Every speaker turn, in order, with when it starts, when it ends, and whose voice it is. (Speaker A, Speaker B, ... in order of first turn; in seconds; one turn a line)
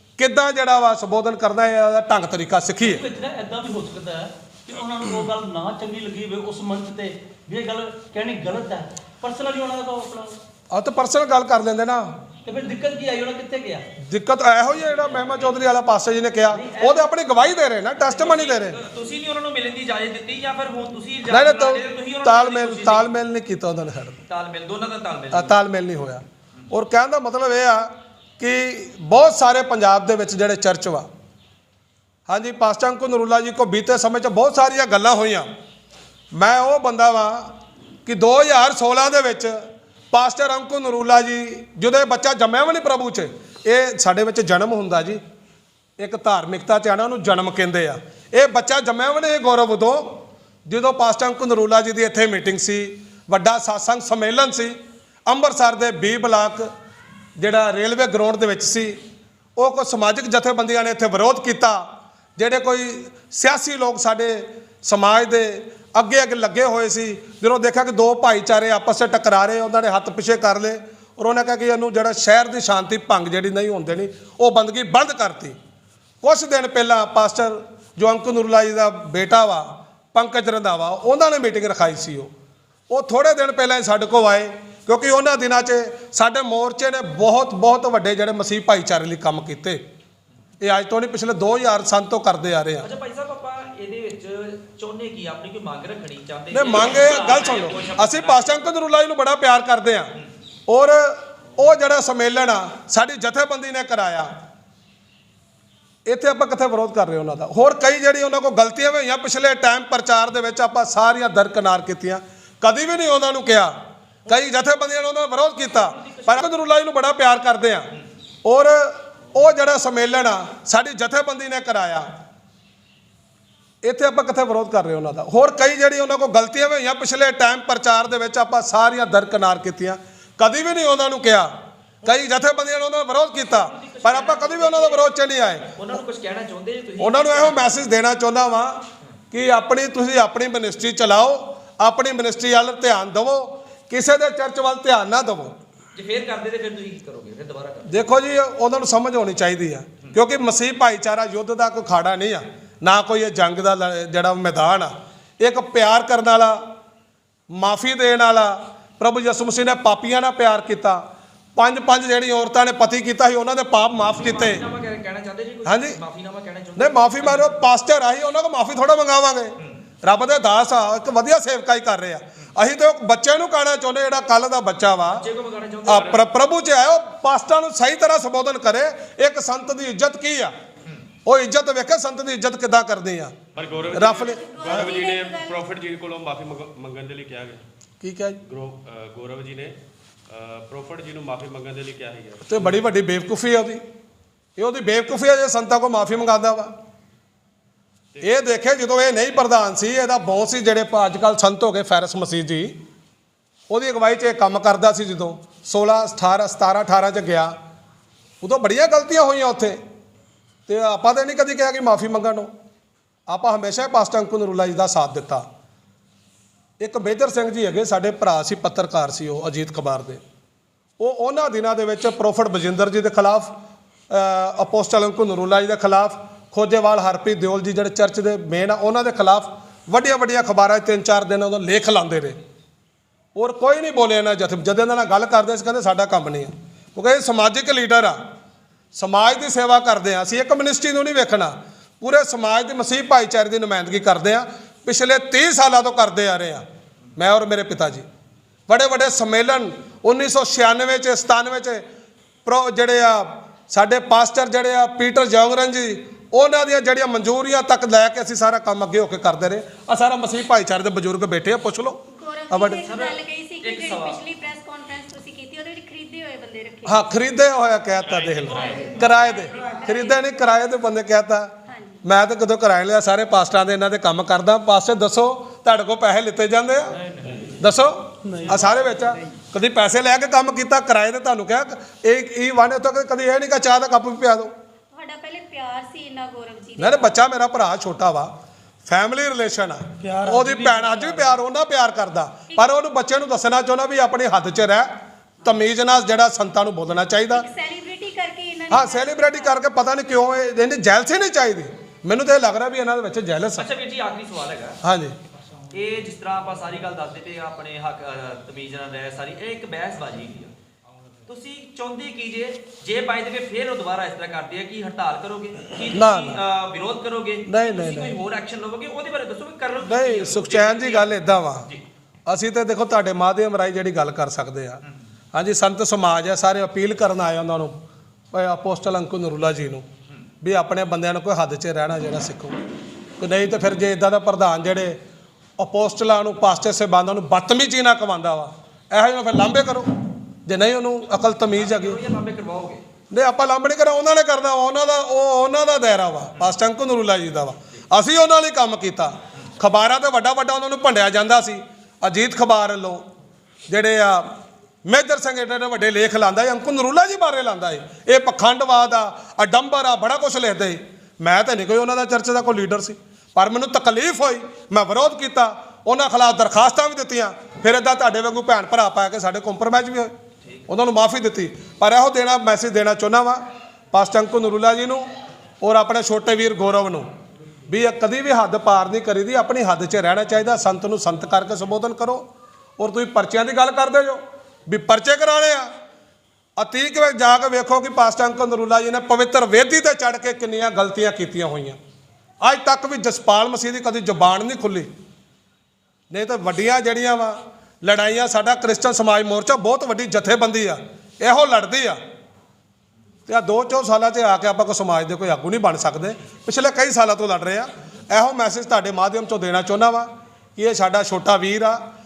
Speaker A: 0.2-3.0
Speaker B: 2.8-10.4
Speaker A: 10.7-12.2
Speaker B: 12.4-13.9
Speaker A: 14.0-18.8
Speaker B: 16.5-17.1
Speaker C: 18.1-23.2
Speaker A: 21.3-24.2
Speaker C: 24.3-25.6
Speaker A: 25.3-31.1
Speaker A: 32.3-35.5
Speaker A: 36.3-37.5
Speaker A: 38.0-39.5
Speaker A: 40.1-45.2
Speaker A: 46.0-56.7
Speaker A: 57.4-59.0
Speaker A: 59.6-61.8
Speaker A: 62.4-75.6
Speaker A: 76.2-82.3
Speaker A: 82.9-89.8
Speaker A: 90.6-92.9
Speaker C: 92.8-98.6
Speaker A: 96.5-100.1
Speaker A: 100.7-104.3
Speaker A: 106.1-113.7
Speaker A: 114.3-117.9
Speaker C: 115.7-116.5
Speaker A: 118.5-122.1
Speaker A: 123.8-131.5
Speaker A: 132.0-135.7
Speaker C: 133.4-135.1
Speaker C: 135.6-137.8
Speaker A: 137.0-145.6
Speaker C: 145.9-148.0
Speaker A: 147.9-156.6
Speaker A: 157.5-161.0
Speaker A: 161.6-164.6
Speaker C: 164.1-167.6
Speaker A: 165.7-166.0
Speaker A: 166.8-175.2
Speaker C: 175.1-176.2
Speaker A: 175.9-180.5
Speaker A: 181.2-183.3
Speaker D: 183.6-187.6
Speaker A: 183.9-184.4
Speaker E: 183.9-185.7
Speaker A: 188.0-188.4
Speaker D: 188.4-189.8
Speaker D: 190.3-192.8
Speaker A: 192.5-193.8
Speaker A: 194.6-196.7
Speaker D: 198.2-198.4
Speaker A: 198.2-202.8
Speaker A: 203.7-207.5
Speaker A: 208.4-209.8
Speaker A: 210.7-212.5
Speaker A: 213.3-215.4
Speaker A: 216.8-220.2
Speaker A: 221.0-223.5
Speaker A: 224.1-232.4
Speaker A: 233.3-238.2
Speaker A: 238.9-246.7
Speaker A: 247.2-248.1
Speaker A: 248.7-251.8
Speaker A: 252.4-262.9
Speaker E: 262.1-267.2
Speaker C: 262.8-264.3
Speaker A: 266.9-271.5
Speaker C: 268.1-269.7
Speaker E: 268.6-270.4
Speaker E: 271.7-272.0
Speaker A: 272.0-277.0
Speaker A: 277.6-284.5
Speaker B: 278.3-279.1
Speaker E: 284.9-287.2
Speaker A: 286.8-288.3
Speaker A: 288.9-294.9
Speaker B: 290.0-291.4
Speaker A: 295.4-297.5
Speaker E: 297.3-299.6
Speaker A: 298.7-303.7
Speaker C: 303.6-304.8
Speaker A: 304.8-305.2
Speaker C: 305.7-310.5
Speaker C: 311.3-321.8
Speaker A: 315.9-316.4
Speaker A: 317.5-318.1
Speaker A: 319.9-321.7
Speaker A: 322.3-324.8
Speaker A: 325.3-327.8
Speaker A: 328.3-329.9
Speaker A: 330.4-332.6
Speaker A: 333.2-335.0
Speaker A: 335.6-339.9
Speaker A: 340.5-342.0
Speaker C: 341.5-342.8
Speaker A: 343.1-353.0
Speaker A: 353.7-354.3
Speaker A: 354.9-370.1
Speaker A: 370.7-375.1
Speaker A: 375.6-377.1
Speaker A: 377.7-385.7
Speaker A: 386.6-391.8
Speaker A: 392.4-394.9
Speaker A: 396.1-402.0
Speaker A: 403.3-411.8